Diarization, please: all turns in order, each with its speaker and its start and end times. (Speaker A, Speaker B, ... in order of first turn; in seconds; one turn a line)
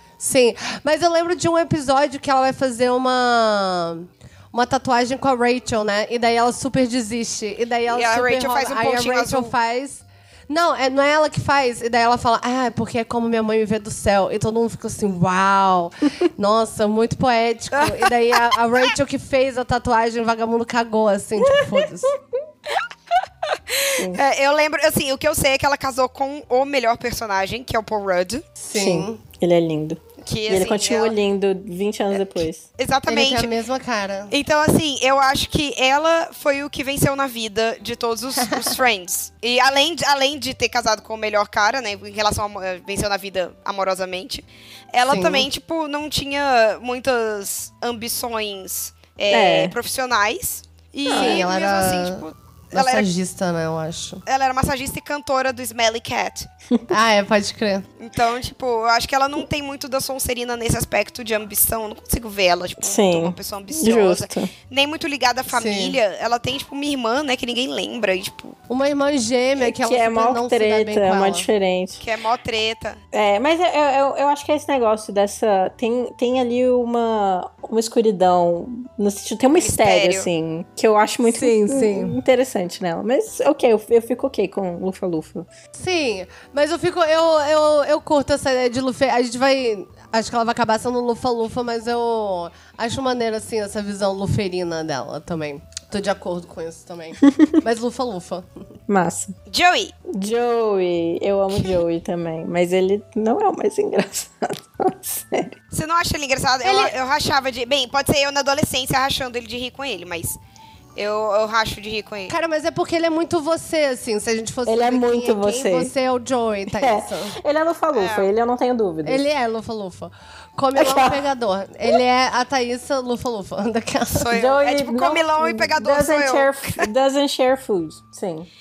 Speaker A: 0.2-22.1
Speaker B: 7.9-9.5
Speaker B: 17.7-18.1
Speaker C: 21.4-22.1
Speaker B: 23.5-28.5
Speaker A: 28.6-29.2
Speaker C: 28.7-32.6
Speaker B: 30.2-31.1
Speaker B: 32.1-33.5
Speaker A: 33.1-34.3
Speaker B: 34.3-53.1
Speaker A: 45.1-45.5
Speaker C: 49.3-49.8
Speaker C: 51.1-51.4
Speaker A: 51.1-54.2
Speaker B: 54.3-56.5
Speaker A: 56.9-57.9
Speaker B: 58.0-68.6
Speaker C: 62.8-64.5
Speaker A: 65.5-66.0
Speaker A: 68.7-71.5
Speaker C: 69.6-72.0
Speaker B: 72.0-73.0
Speaker C: 73.1-85.5
Speaker B: 79.5-80.3
Speaker A: 81.3-82.2
Speaker A: 85.8-98.5
Speaker C: 97.2-97.6
Speaker C: 98.9-99.3
Speaker B: 99.5-99.9
Speaker C: 100.1-105.5
Speaker B: 105.7-110.4
Speaker A: 106.6-107.0
Speaker B: 111.0-112.3
Speaker A: 112.3-117.3
Speaker C: 114.7-115.9
Speaker C: 116.7-119.2
Speaker B: 117.9-118.3
Speaker A: 119.0-124.3
Speaker C: 120.8-121.2
Speaker B: 124.1-126.9
Speaker C: 124.3-128.5